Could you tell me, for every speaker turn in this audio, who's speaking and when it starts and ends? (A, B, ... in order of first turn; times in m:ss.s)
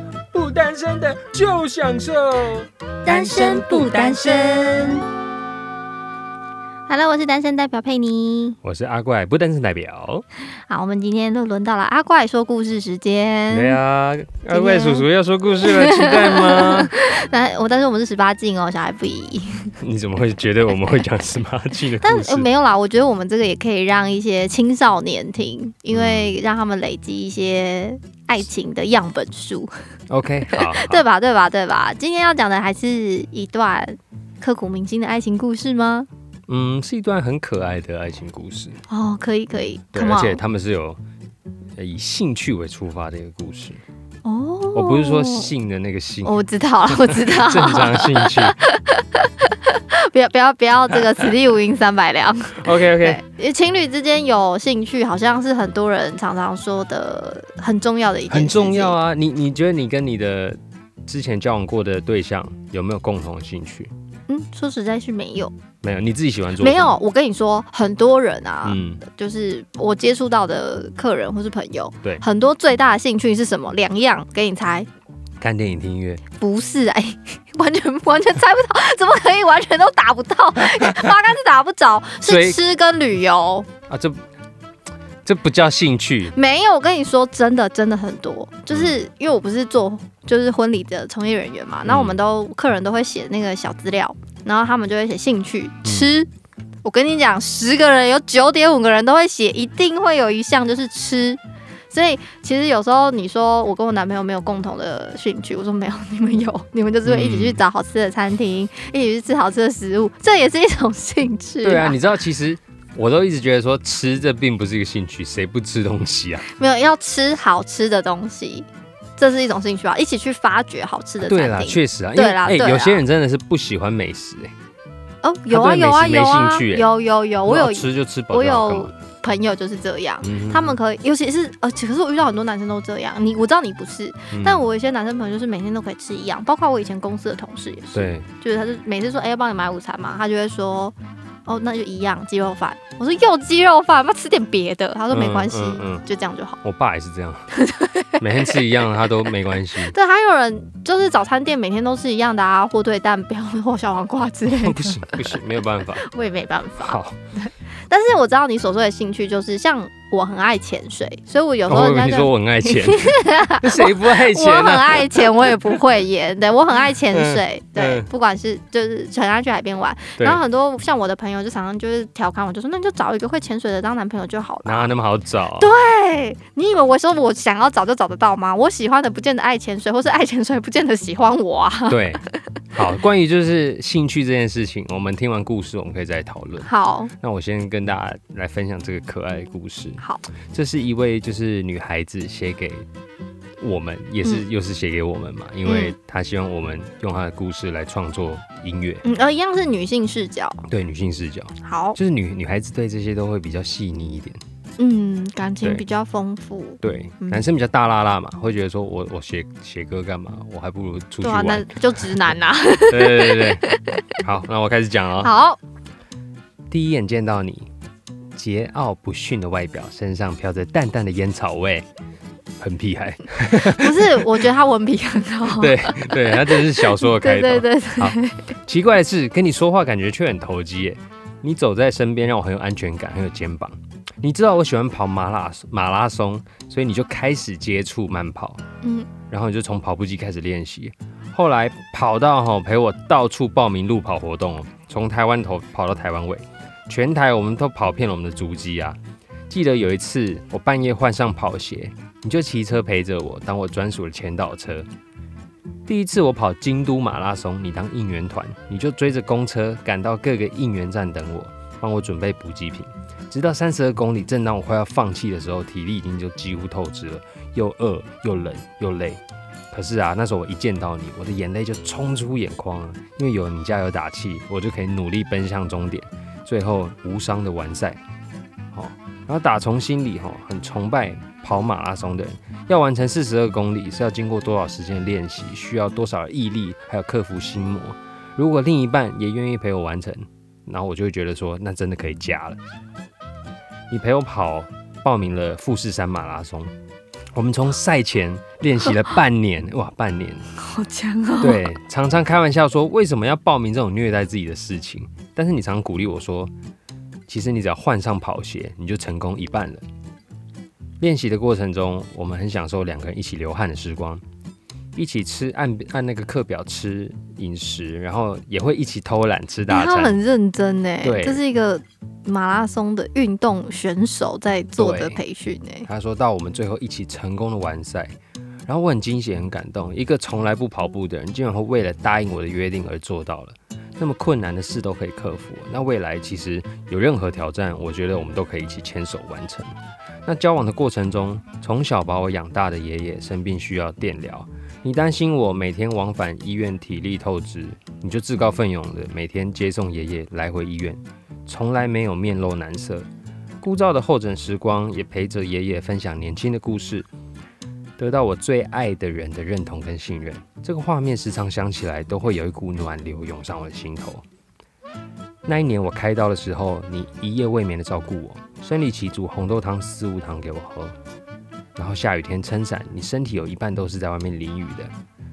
0:00.3-0:04.6 A
0:03.0-0:05.0 B
0:06.9-0:08.6 B
0:08.6-0:10.2 A
0:10.7-0:13.8 B
0:13.5-0:16.9 A
0:14.5-0:15.0 B
0:15.6-0:19.7 B
0:19.8-0:22.5 A
0:22.0-0:29.7 B
0:25.9-0:26.3 A
0:30.1-0:31.0 A
0:30.5-0:36.1 B
0:36.5-0:38.8 A
0:38.9-0:40.4 B
0:39.9-0:41.0 A
0:41.8-0:43.8 A
0:44.2-0:45.5 B
0:44.7-0:48.6 A
0:46.2-0:59.0 B
0:52.6-0:53.2 A
0:58.3-1:03.9 A
1:04.3-1:05.5 B
1:05.8-1:06.9 A
1:06.6-1:14.9 B
1:08.6-1:09.0 A
1:15.4-1:16.2 A
1:16.4-1:23.7 B
1:20.8-1:21.1 A
1:22.2-1:22.6 A
1:23.9-1:24.2 A
1:25.2-1:26.3 A
1:26.3-1:36.3 B
1:31.9-1:32.2 A
1:35.8-1:36.1 A
1:36.8-1:41.4 B
1:41.9-1:52.0 B
1:47.0-1:47.6 A
1:51.6-1:56.5 A
1:56.5-1:58.6 B
1:59.2-2:03.0 B
2:01.2-2:04.5 A
2:05.2-2:20.9 B
2:05.5-2:06.9 A
2:07.5-2:08.9 A
2:10.2-2:10.7 A
2:14.3-2:14.6 A
2:17.9-2:18.2 A
2:21.4-2:26.6 B
2:25.1-2:26.0 A
2:26.6-2:27.5 A
2:27.5-2:28.6 B
2:28.2-2:29.9 A
2:29.8-2:35.4 B
2:34.5-2:36.1 A
2:36.0-2:54.9 B
2:36.8-2:37.2 A
2:41.7-2:45.8 A
2:46.9-2:48.1 A
2:54.6-2:55.7 A
2:55.6-3:02.2 B
3:01.9-3:12.8 A
3:06.6-3:07.1 B
3:10.0-3:10.3 B
3:13.6-3:19.0 A
3:15.6-3:15.9 B
3:19.0-3:20.6 B
3:20.7-3:24.4 A
3:21.6-3:22.0 B
3:24.8-3:27.4 B
3:26.8-3:31.7 A
3:31.2-3:34.0 B
3:32.9-3:33.6 A
3:34.2-3:35.3 A
3:35.2-3:35.6 B
3:36.7-3:37.7 A
3:38.3-3:41.8 A
3:42.6-3:44.4 A
3:43.5-3:48.5 B
3:45.5-3:58.6 A
3:58.8-3:59.1 B
3:59.3-4:14.9 A
4:15.9-4:29.2 A
4:29.7-4:38.0 A
4:38.7-4:52.6 A
4:53.9-4:56.7 A
4:57.3-5:00.4 A
5:00.6-5:01.7 B
5:01.4-5:06.5 A
5:07.3-5:09.8 A
5:11.0-5:14.2 A
5:15.0-5:20.2 A
5:19.7-5:25.9 B
5:21.0-5:21.4 A
5:24.8-5:25.2 A
5:25.8-5:28.2 A
5:28.7-5:39.7 A
5:40.2-5:53.1 A
5:53.6-5:57.1 A
5:58.0-6:04.2 A
6:05.4-6:10.9 A
6:11.8-6:14.9 A